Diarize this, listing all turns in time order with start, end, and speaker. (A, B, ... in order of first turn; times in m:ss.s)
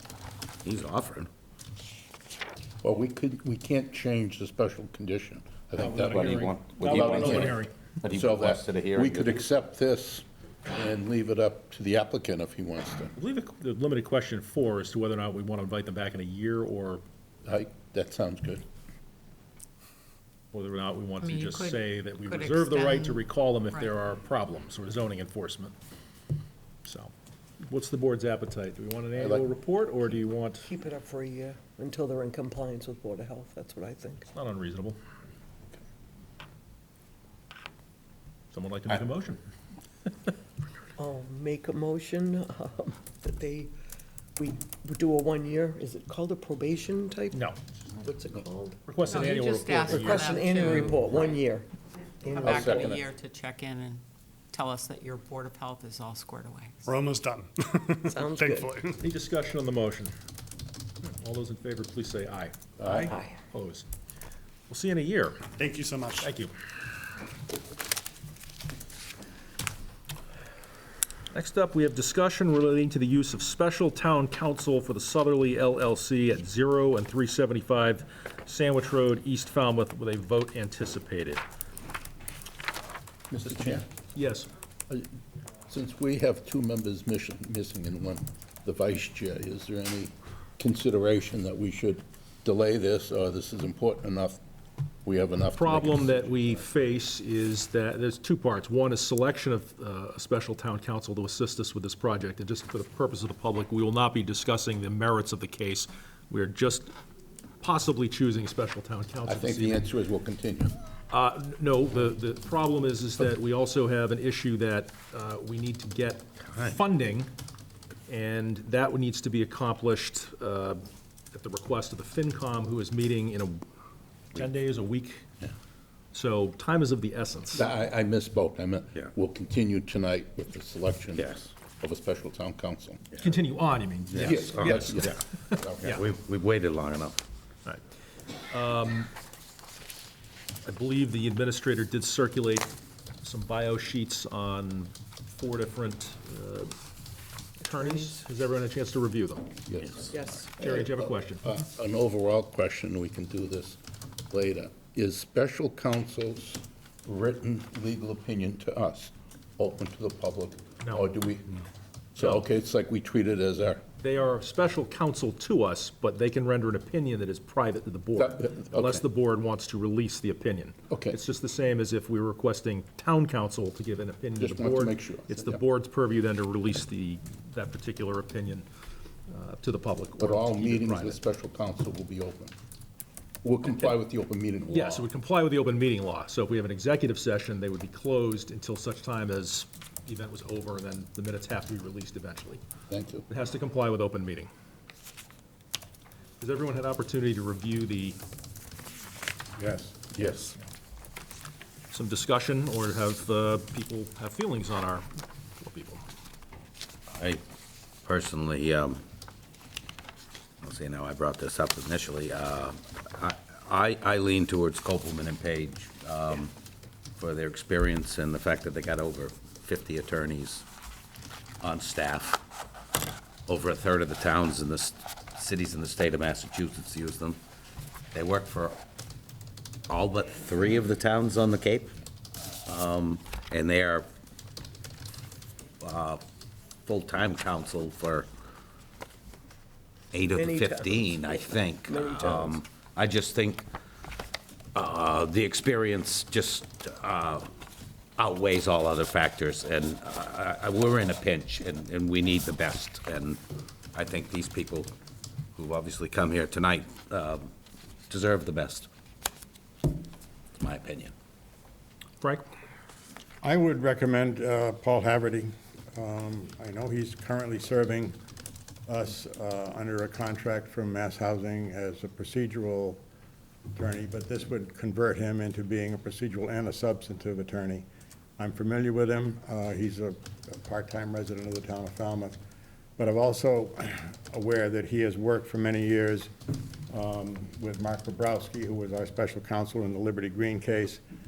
0:00.6-0:01.3 A
0:02.8-0:13.2 B
0:05.8-0:07.7 C
0:06.0-0:09.4 A
0:13.2-0:17.0 C
0:17.4-0:18.6 B
0:20.5-0:25.8 C
0:21.2-0:23.2 D
0:26.8-0:30.7 C
0:29.2-0:29.5 B
0:30.7-0:34.3 E
0:34.3-0:35.0 C
0:38.5-0:39.4 C
0:41.0-0:43.7 E
0:44.4-0:48.9 E
0:47.3-0:47.6 C
0:48.9-0:51.0 C
0:49.1-0:51.1 D
0:49.8-0:51.7 E
0:52.2-0:52.9 E
0:52.4-0:53.1 B
0:52.4-0:54.0 D
0:54.5-0:56.9 D
0:56.9-0:59.0 F
0:58.0-0:58.8 E
0:59.0-1:00.1 C
1:01.0-1:03.9 C
1:02.8-1:03.1 B
1:03.0-1:03.4 E
1:04.7-1:05.4 C
1:05.6-1:06.3 F
1:06.2-1:06.5 C
1:11.3-1:21.4 C
1:23.3-1:23.9 B
1:23.9-1:24.5 C
1:25.7-1:34.4 B
1:35.0-1:36.3 B
1:35.6-1:46.9 C
1:47.6-1:49.9 C
1:49.3-1:50.8 B
1:51.1-1:57.3 C
1:58.1-2:03.6 C
2:04.4-2:05.2 C
2:06.1-2:07.7 C
2:07.5-2:13.1 B
2:11.2-2:11.4 A
2:13.1-2:16.0 C
2:14.2-2:15.2 B
2:14.2-2:17.2 A
2:18.5-2:19.1 C
2:20.6-2:22.7 C
2:23.2-2:26.7 C
2:27.6-2:29.6 C
2:29.7-2:41.6 B
2:30.1-2:30.5 E
2:30.3-2:31.6 C
2:42.2-2:43.8 B
2:44.0-2:58.7 C
2:48.2-2:49.1 B
2:50.9-2:51.2 B
2:54.4-2:55.6 B
2:59.3-3:01.2 C
3:00.2-3:02.5 B
3:03.4-3:05.1 B
3:04.7-3:12.6 C
3:12.9-3:13.3 B
3:13.3-3:14.5 C
3:16.4-3:18.2 C
3:19.6-3:19.9 G
3:20.1-3:20.6 B
3:21.9-3:26.0 C
3:27.1-3:27.4 A
3:28.0-3:29.0 A
3:30.6-3:36.5 A
3:37.2-3:40.6 A
3:41.6-3:42.4 A
3:43.5-3:47.4 A
3:48.1-3:48.8 A
3:49.9-3:51.9 A
3:52.7-3:54.1 A
3:55.8-3:56.2 A
3:56.9-3:58.3 A
4:00.1-4:03.7 A
4:00.2-4:02.6 E
4:04.8-4:07.5 A
4:08.2-4:13.4 A
4:13.9-4:14.9 A
4:15.6-4:17.5 A
4:18.1-4:18.9 A
4:20.6-4:21.1 A
4:22.2-4:22.5 C
4:23.4-4:28.2 G
4:28.9-4:33.0 G
4:33.7-4:37.9 G
4:38.4-4:42.4 G
4:43.0-4:46.3 G
4:46.9-4:51.0 G